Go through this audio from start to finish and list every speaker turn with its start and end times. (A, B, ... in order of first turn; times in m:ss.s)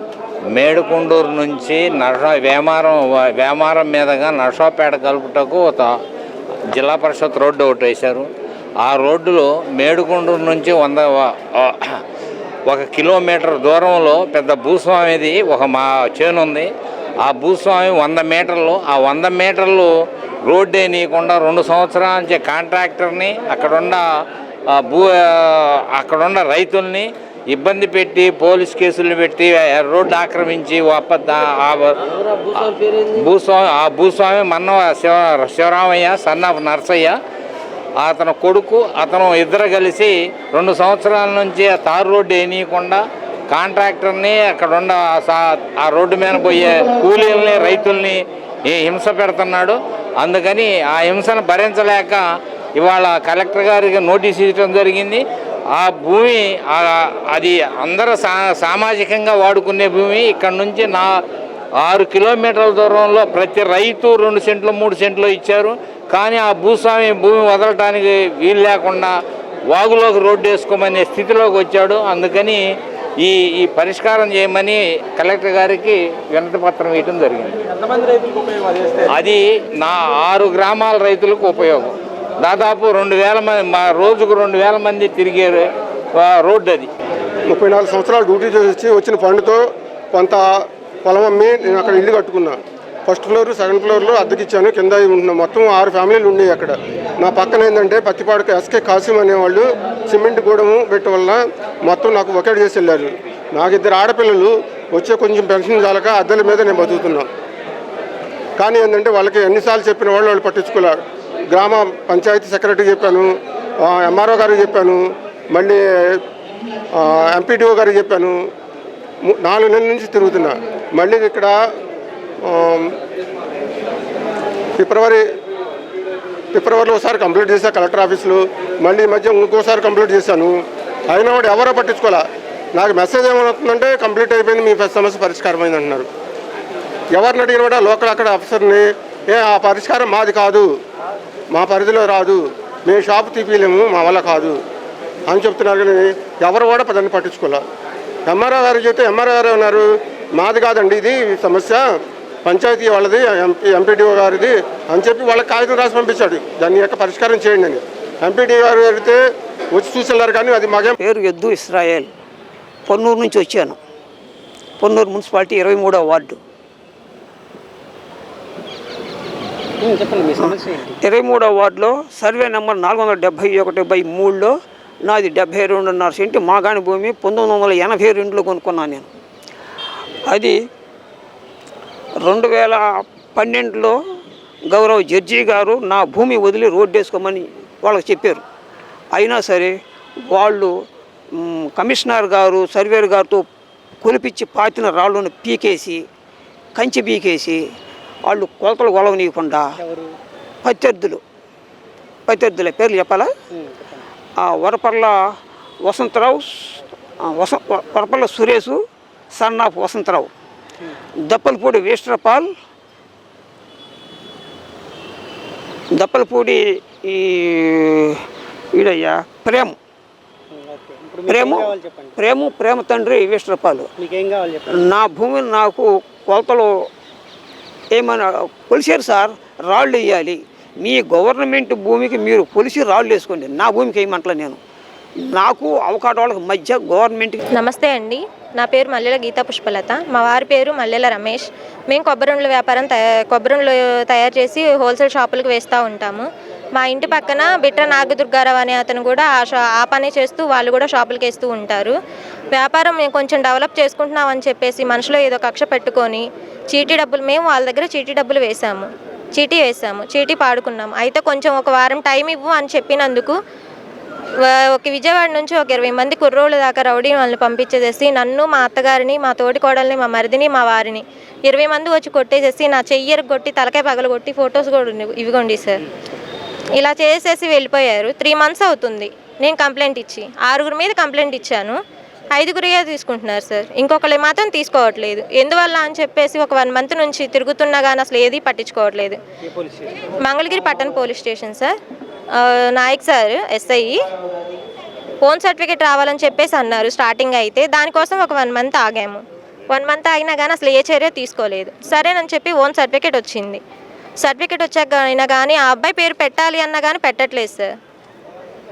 0:00.5-0:05.9 A
0:06.7-0:08.3 A
0:08.8-0:12.0 A
0:12.7-0:16.7 A
0:17.2-0:19.9 A
0:20.4-0:24.0 A
0:24.7-0:32.0 A
0:32.5-0:37.1 A
0:38.0-0:52.2 A
0:52.8-1:01.1 A
1:01.8-1:09.1 A
1:09.7-1:12.6 A
1:13.2-1:17.6 A
1:19.1-1:26.9 A
1:27.5-1:30.4 B
1:31.0-1:47.3 B
1:48.6-1:51.0 B
1:51.5-1:53.3 B
1:53.8-1:56.2 B
1:56.9-1:58.4 B
1:59.2-2:01.5 B
2:02.4-2:02.9 B
2:04.8-2:05.2 B
2:06.5-2:10.6 B
2:11.1-2:16.1 B
2:17.2-2:20.7 B
2:21.5-2:24.6 B
2:25.3-2:27.6 B
2:28.3-2:31.8 B
2:32.4-2:39.2 B
2:39.7-2:41.0 B
2:41.0-2:42.1 C
2:42.9-2:43.8 C
2:44.8-2:46.4 C
2:49.8-2:51.0 D
2:50.4-2:59.1 C
3:00.3-3:00.6 C
3:02.2-3:03.9 C
3:04.7-3:08.4 C
3:09.1-3:09.8 C
3:10.3-3:10.7 C
3:11.3-3:13.4 C
3:14.0-3:16.0 C
3:16.8-3:17.6 C
3:18.3-3:19.8 C
3:19.8-3:20.1 D
3:20.6-3:21.2 C
3:22.3-3:23.3 C
3:23.5-3:24.1 D
3:24.4-3:25.1 C
3:25.8-3:28.8 C
3:29.3-3:30.3 C
3:31.2-3:32.5 C
3:35.9-3:39.8 C
3:40.5-3:42.2 D
3:41.3-3:43.9 C
3:44.0-3:44.9 D
3:44.7-3:46.7 C
3:47.9-3:54.6 C
3:55.3-3:57.4 C
3:57.6-4:11.9 E
4:12.5-4:23.4 E
4:24.4-4:35.8 E
4:36.8-4:41.8 E
4:42.4-4:49.2 E
4:50.2-4:51.8 E
4:52.3-4:54.0 E
4:55.2-5:03.6 E
5:04.2-5:07.7 E